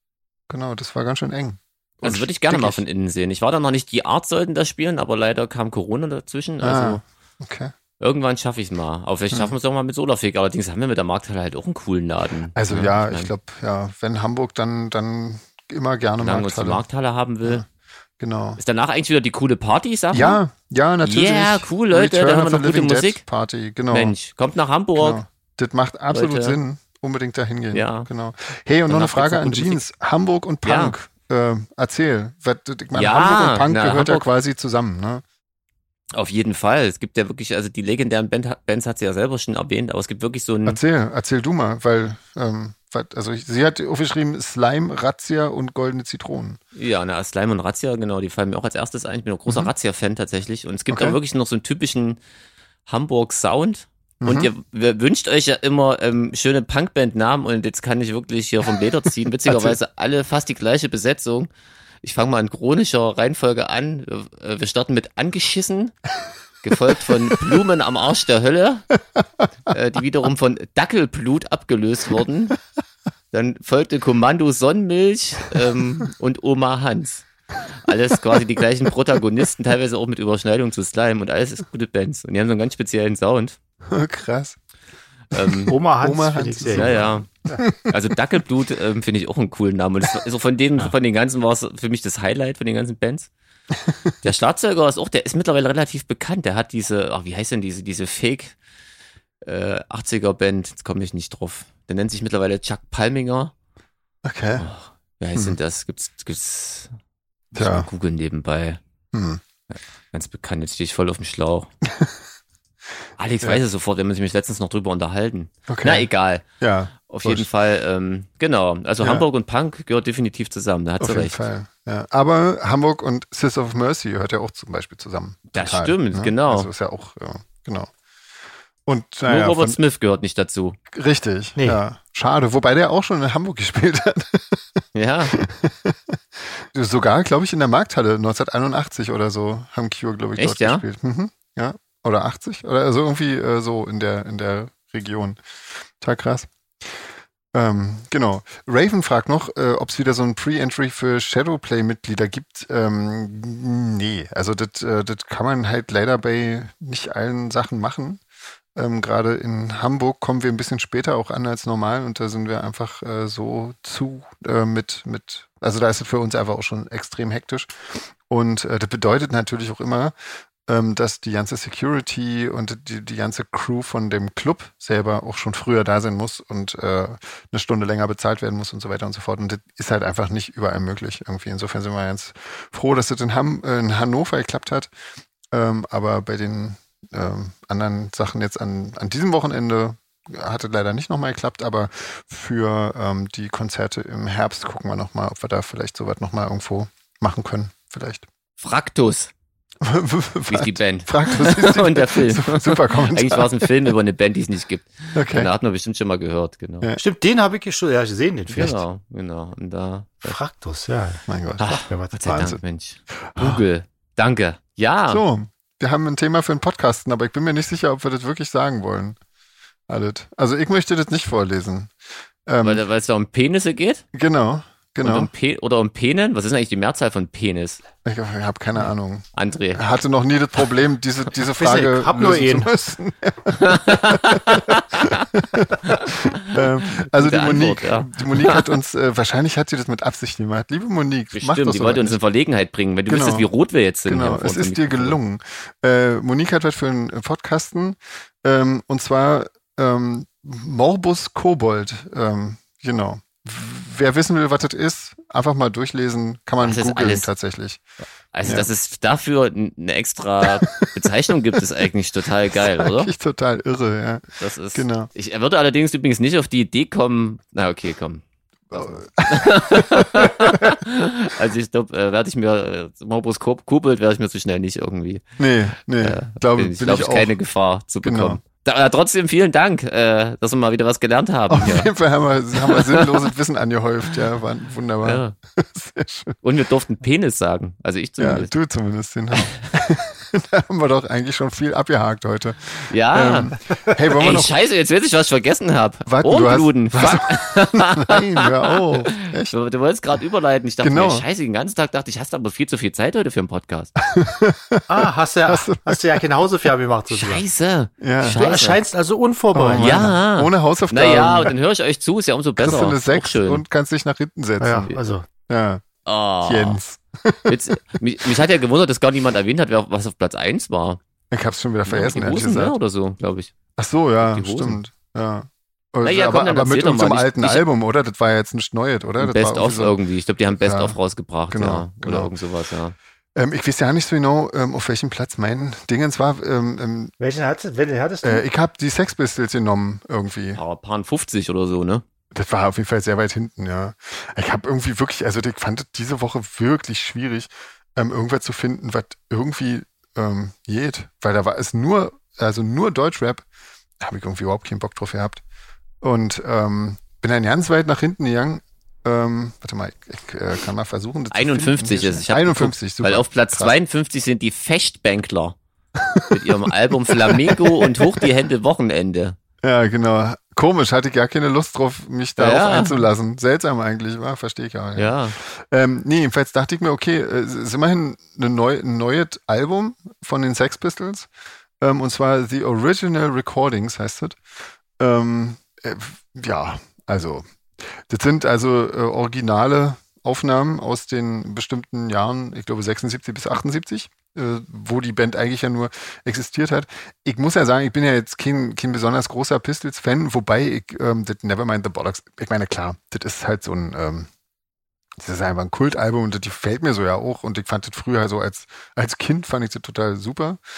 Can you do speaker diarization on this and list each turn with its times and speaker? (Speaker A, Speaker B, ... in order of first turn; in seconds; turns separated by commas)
Speaker A: 0.5-2.8, Speaker B: 2.0-7.0, Speaker A: 6.6-7.7, Speaker B: 8.0-13.3, Speaker A: 12.5-16.8, Speaker B: 16.2-17.6, Speaker A: 18.2-18.6, Speaker B: 18.6-20.4, Speaker A: 20.1-24.1, Speaker B: 21.0-23.2, Speaker B: 23.9-25.2, Speaker A: 24.9-35.2, Speaker B: 26.1-26.6, Speaker B: 27.7-28.1, Speaker B: 28.9-29.8, Speaker B: 30.6-30.9, Speaker B: 32.9-34.2, Speaker B: 36.1-40.8, Speaker A: 40.6-46.6, Speaker B: 46.7-52.2, Speaker A: 50.9-51.2, Speaker B: 52.9-61.5, Speaker A: 54.2-54.5, Speaker A: 59.5-59.8, Speaker B: 62.0-65.9, Speaker B: 66.6-68.9, Speaker B: 69.7-72.6, Speaker B: 73.3-77.2, Speaker B: 77.8-83.6, Speaker A: 83.9-84.6, Speaker B: 85.3-85.7, Speaker A: 85.3-88.0, Speaker C: 85.7-87.6, Speaker B: 86.7-93.3, Speaker A: 93.9-94.1, Speaker B: 94.2-98.5, Speaker B: 99.4-103.5, Speaker A: 104.2-104.7, Speaker B: 104.6-106.9, Speaker B: 107.5-108.8, Speaker A: 107.5-107.9, Speaker A: 109.1-109.4, Speaker B: 109.7-111.7, Speaker A: 111.9-112.1, Speaker B: 113.2-116.4, Speaker A: 115.7-117.5, Speaker B: 117.1-121.4, Speaker A: 119.0-119.2, Speaker A: 121.0-127.9, Speaker B: 125.5-126.7, Speaker A: 128.8-129.8, Speaker B: 129.2-130.8, Speaker A: 130.9-145.4, Speaker C: 131.6-131.8, Speaker B: 134.9-135.4, Speaker B: 140.4-140.8, Speaker A: 146.0-147.0, Speaker A: 147.5-158.2, Speaker A: 158.7-170.1, Speaker A: 170.7-184.9, Speaker A: 185.5-198.2, Speaker B: 198.6-199.3, Speaker A: 199.8-203.9, Speaker B: 200.5-206.9, Speaker A: 205.1-205.5, Speaker C: 206.9-208.8, Speaker B: 208.5-210.4, Speaker C: 210.2-212.2, Speaker A: 211.3-211.7, Speaker B: 211.6-215.2, Speaker A: 212.2-212.6, Speaker A: 213.2-213.6, Speaker A: 215.1-219.2, Speaker A: 219.9-221.9, Speaker A: 222.4-222.8, Speaker B: 222.6-224.0, Speaker A: 224.1-225.3, Speaker B: 225.0-227.8, Speaker A: 228.0-242.2, Speaker B: 229.4-229.8, Speaker C: 231.5-232.7, Speaker B: 233.5-235.3, Speaker B: 235.8-238.7, Speaker B: 241.3-245.2, Speaker A: 243.1-243.5, Speaker A: 244.1-257.8, Speaker B: 256.6-257.3, Speaker B: 258.3-263.1, Speaker A: 260.4-261.9, Speaker A: 262.4-265.1, Speaker B: 264.4-275.2, Speaker A: 268.7-270.8, Speaker A: 275.4-277.4, Speaker B: 276.0-281.9, Speaker A: 278.0-278.4, Speaker A: 281.5-286.4, Speaker B: 282.6-283.3, Speaker B: 285.0-285.3, Speaker B: 286.4-288.5, Speaker A: 288.2-294.5, Speaker B: 292.9-293.6, Speaker B: 294.1-303.9, Speaker A: 296.1-299.5, Speaker A: 300.8-301.2, Speaker A: 304.0-306.2, Speaker C: 304.9-307.4, Speaker B: 307.1-308.8, Speaker A: 308.0-308.4, Speaker C: 308.2-310.0, Speaker A: 309.5-311.5, Speaker B: 309.8-313.6, Speaker A: 312.6-315.0, Speaker C: 314.6-315.2, Speaker A: 315.5-315.8, Speaker B: 316.0-316.8, Speaker A: 316.4-318.4, Speaker B: 317.5-321.0, Speaker A: 321.3-322.8, Speaker B: 321.9-323.5, Speaker A: 323.8-330.0, Speaker B: 324.2-324.8, Speaker B: 326.0-327.6, Speaker B: 329.2-332.9, Speaker A: 330.6-331.0, Speaker A: 331.5-332.3, Speaker A: 333.4-337.1, Speaker C: 337.2-338.4, Speaker A: 338.2-340.6, Speaker B: 340.6-342.0, Speaker A: 342.3-353.4, Speaker A: 354.0-355.4, Speaker A: 356.0-363.7, Speaker B: 361.3-365.6, Speaker A: 365.9-368.2, Speaker B: 366.3-369.4, Speaker A: 369.6-381.3, Speaker B: 372.4-373.0, Speaker B: 375.0-375.4, Speaker A: 381.8-384.4, Speaker A: 385.0-404.3, Speaker A: 405.2-410.6